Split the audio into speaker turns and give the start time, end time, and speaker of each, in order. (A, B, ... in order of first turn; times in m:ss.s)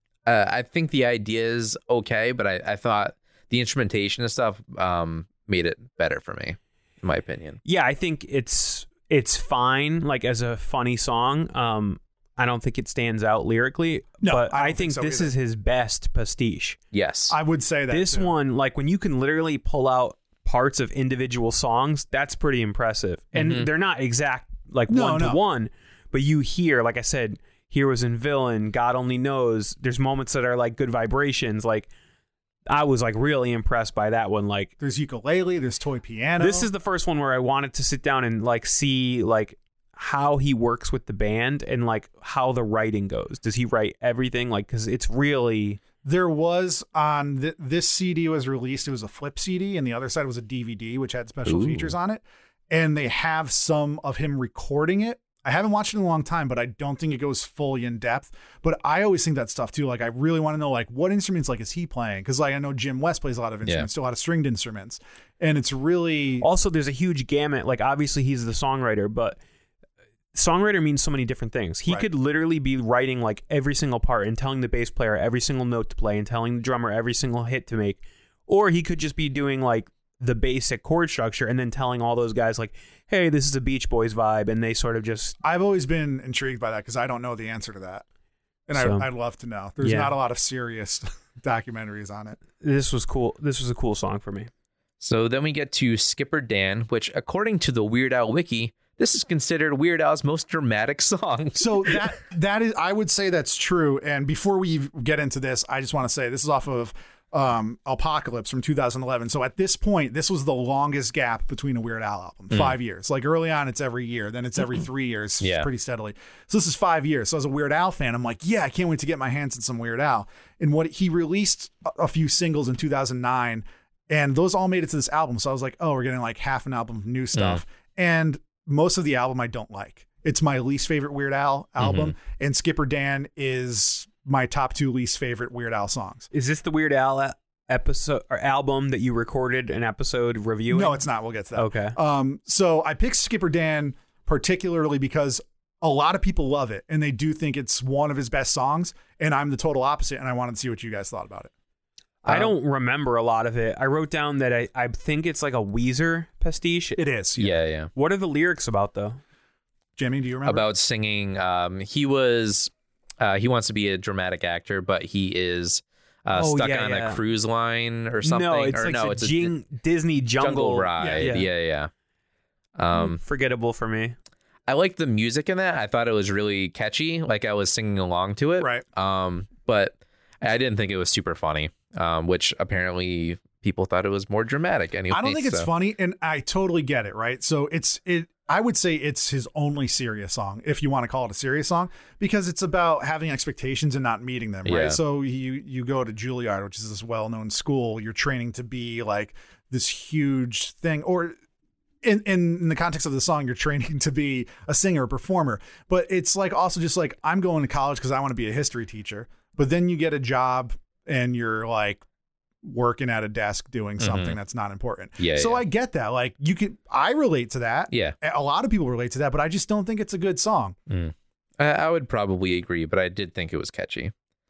0:00.3-0:07.6 A
0:07.7-0:16.8 B
0:14.2-0:15.3 C
0:16.9-0:17.4 A
0:17.3-0:18.3 C
0:17.9-0:31.9 B
0:23.4-0:23.7 A
0:24.9-0:25.4 C
0:32.7-0:34.7 B
0:34.8-0:36.7 C
0:36.4-0:45.8 B
0:46.0-1:06.5 C
0:51.5-0:51.9 A
1:06.4-1:09.4 B
1:10.3-1:25.4 B
1:25.4-1:28.0 C
1:28.7-1:32.4 C
1:28.7-1:29.1 B
1:29.8-1:30.1 B
1:32.6-1:34.5 B
1:35.0-1:42.0 A
1:41.6-2:16.3 C
1:55.4-1:55.7 A
2:07.4-2:07.6 A
2:11.8-2:12.1 A
2:16.3-2:21.0 B
2:20.7-2:31.5 C
2:21.6-2:22.0 B
2:32.2-2:37.0 B
2:32.3-2:32.5 A
2:37.0-2:37.6 C
2:37.4-2:37.9 A
2:38.0-2:39.2 B
2:40.0-2:40.7 C
2:40.4-2:49.5 A
2:46.4-2:47.2 B
2:48.2-2:51.5 B
2:50.4-2:51.9 A
2:52.8-2:53.2 A
2:52.9-2:54.2 B
2:54.7-3:05.7 A
2:58.6-2:58.8 C
3:05.1-3:21.4 C
3:14.6-3:15.0 A
3:22.0-3:32.0 C
3:32.6-3:40.8 C
3:34.0-3:34.4 A
3:35.2-3:35.6 A
3:40.9-3:44.1 A